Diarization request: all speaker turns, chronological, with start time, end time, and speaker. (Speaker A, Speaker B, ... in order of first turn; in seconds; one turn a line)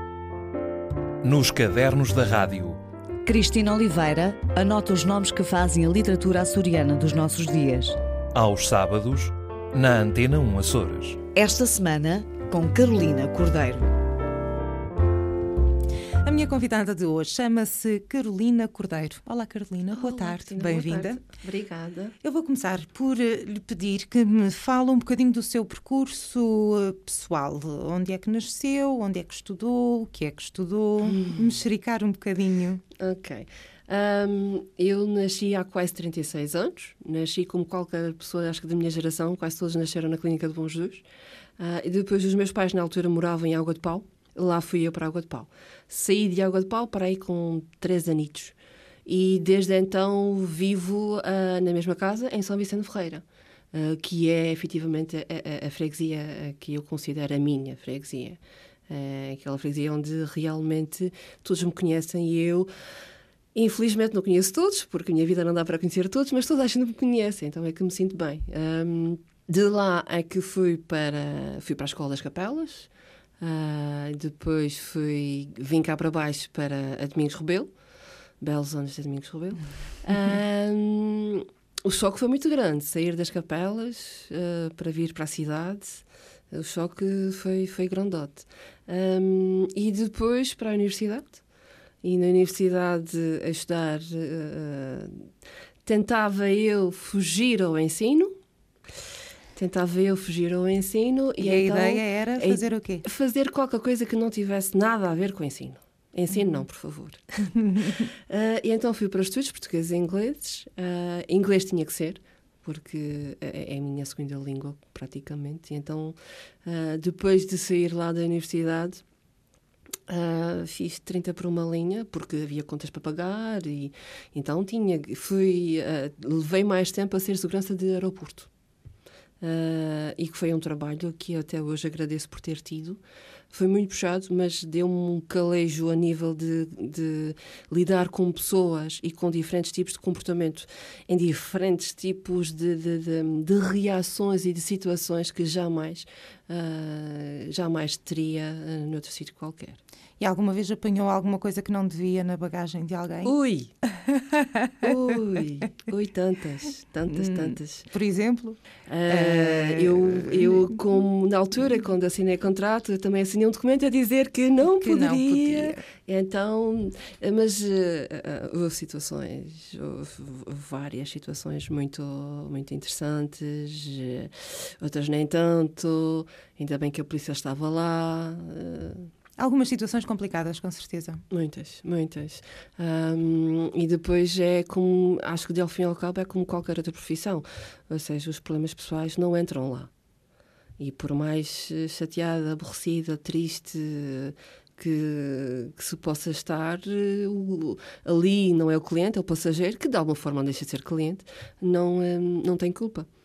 Speaker A: 1.2-2.8
Speaker B: 3.2-8.0
Speaker A: 8.3-11.2
Speaker B: 11.3-13.9
Speaker C: 16.2-21.2
Speaker D: 19.9-22.1
Speaker C: 22.2-32.8
Speaker D: 33.0-41.0
Speaker D: 41.6-62.7
Speaker D: 63.5-77.7
Speaker D: 78.4-91.4
Speaker D: 92.0-95.3
Speaker D: 95.9-98.3
Speaker D: 99.5-119.0
Speaker C: 101.4-103.1
Speaker D: 120.1-128.5
Speaker D: 129.4-149.8
Speaker C: 150.2-153.3
Speaker D: 153.2-153.7
Speaker C: 154.1-154.9
Speaker D: 154.8-157.9
Speaker C: 157.1-160.7
Speaker D: 158.9-179.1
Speaker C: 164.6-165.8
Speaker C: 179.4-181.2
Speaker D: 181.3-189.9
Speaker D: 190.8-203.1